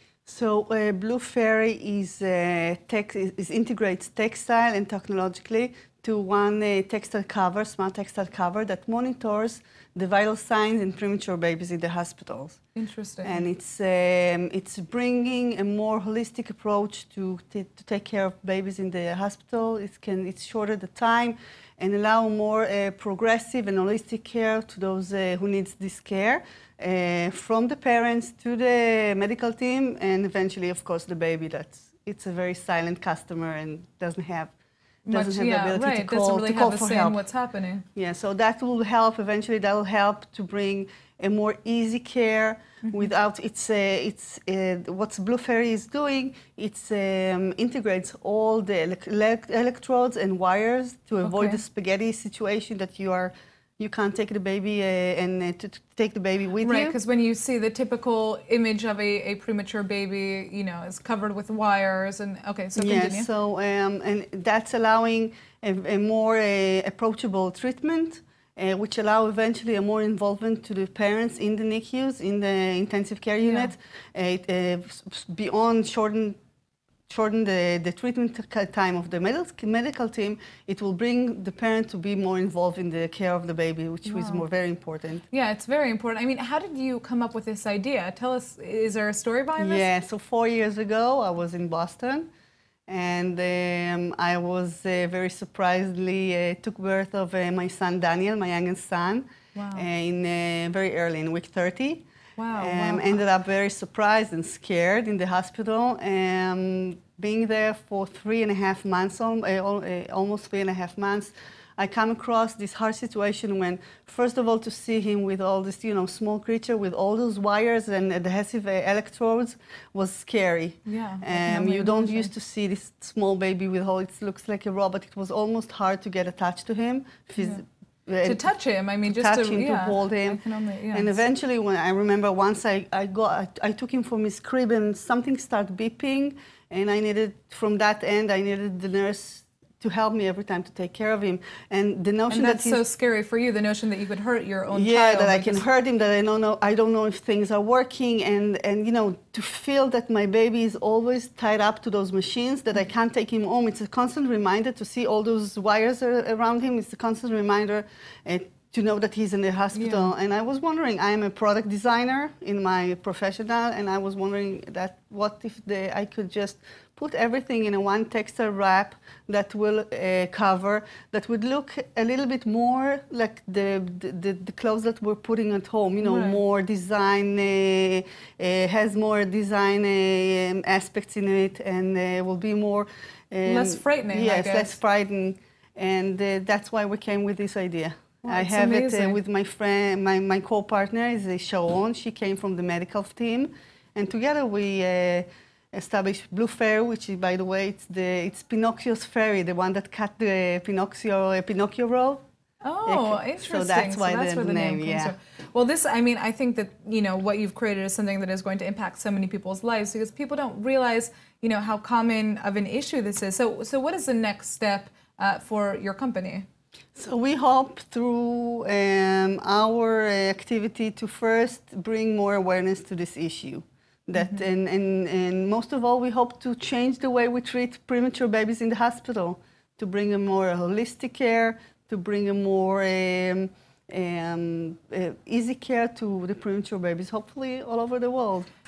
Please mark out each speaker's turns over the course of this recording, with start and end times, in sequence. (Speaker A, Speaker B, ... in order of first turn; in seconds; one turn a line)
Speaker A: 0.2-12.6
Speaker B: 12.7-13.4
Speaker A: 13.2-34.5
Speaker B: 35.0-37.8
Speaker A: 35.1-37.2
Speaker A: 37.9-57.0
Speaker B: 42.8-43.1
Speaker B: 51.2-51.6
Speaker B: 56.6-63.3
Speaker A: 62.8-76.4
Speaker B: 73.4-73.7
Speaker A: 77.1-85.2
Speaker B: 84.1-84.4
Speaker B: 85.3-89.9
Speaker A: 89.6-92.3
Speaker A: 92.9-128.5
Speaker B: 99.5-99.8
Speaker B: 102.4-103.2
Speaker B: 120.8-122.3
Speaker B: 128.2-131.2
Speaker A: 129.0-130.4
Speaker A: 130.9-142.8
Speaker B: 142.3-145.6
Speaker A: 144.7-202.2
Speaker B: 159.7-160.1
Speaker B: 176.0-176.4
Speaker B: 183.4-184.8
Speaker B: 188.2-189.2
Speaker B: 202.6-216.4
Speaker A: 202.8-205.1
Speaker A: 216.9-238.5
Speaker B: 224.2-224.4